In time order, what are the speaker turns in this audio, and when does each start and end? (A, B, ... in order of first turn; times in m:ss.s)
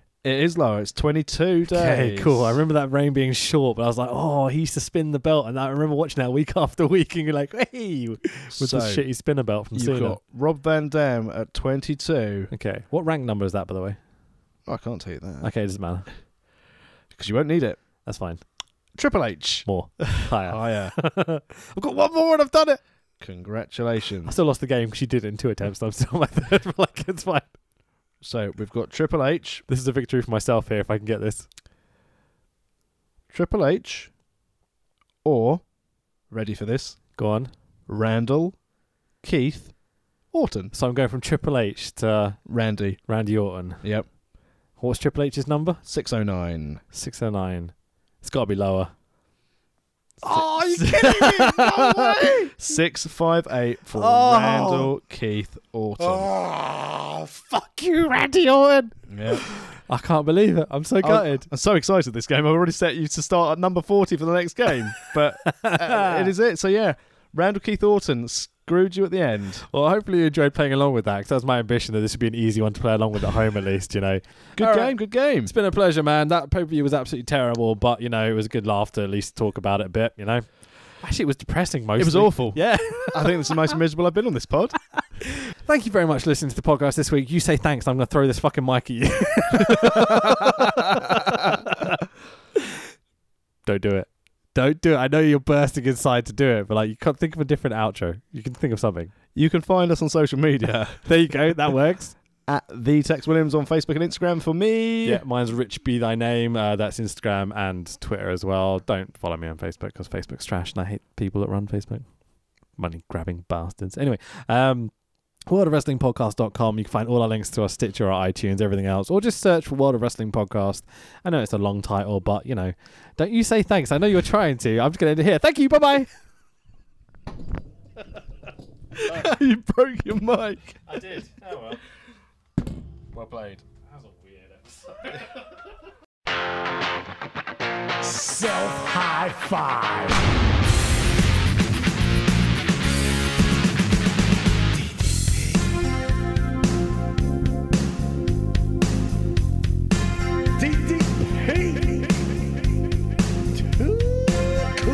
0:00.2-0:02.6 A
0:01.7-0:10.2 B
0:08.5-0:09.0 A
0:09.7-0:12.5 A
0:12.5-0:14.0 B
0:14.6-0:15.5 A
0:15.4-0:16.1 B
0:17.1-0:17.8 A
0:18.0-0:18.4 B
0:19.0-0:19.6 A
0:19.6-0:22.8 B
0:20.4-0:21.0 A
0:23.2-0:24.3 A
0:24.2-0:27.5 B
0:28.2-0:29.6 A
0:29.7-0:31.5 B
0:33.3-0:34.1 A
0:35.2-0:35.6 A
0:36.3-0:37.0 A
0:37.2-0:37.5 B
0:37.9-0:38.6 A
0:39.2-0:39.7 A
0:40.3-0:40.7 A
0:40.7-0:42.4 B
0:42.4-0:43.0 A
0:43.1-0:43.8 B
0:44.8-0:45.8 B
0:45.8-0:46.8 A
0:46.9-0:48.9 B
0:50.2-0:52.7 B
0:50.3-0:56.3 A
0:53.9-0:54.9 B
0:56.0-1:01.5 B
0:59.1-0:59.4 A
1:01.0-1:09.6 A
1:05.4-1:06.3 B
1:09.7-1:20.4 B
1:14.6-1:15.5 A
1:21.0-1:23.7 B
1:22.0-1:24.7 A
1:25.2-1:32.0 B
1:29.8-1:31.6 A
1:33.6-1:39.1 B
1:39.3-1:41.0 A
1:41.0-1:42.2 B
1:42.5-1:45.2 A
1:45.0-1:52.1 B
1:52.8-1:54.9 B
1:55.5-2:06.1 B
2:08.9-2:10.8 A
2:10.8-2:11.8 B
2:13.1-2:13.6 A
2:13.9-2:15.3 B
2:18.5-2:19.5 A
2:18.7-2:19.7 B
2:31.0-2:32.0 B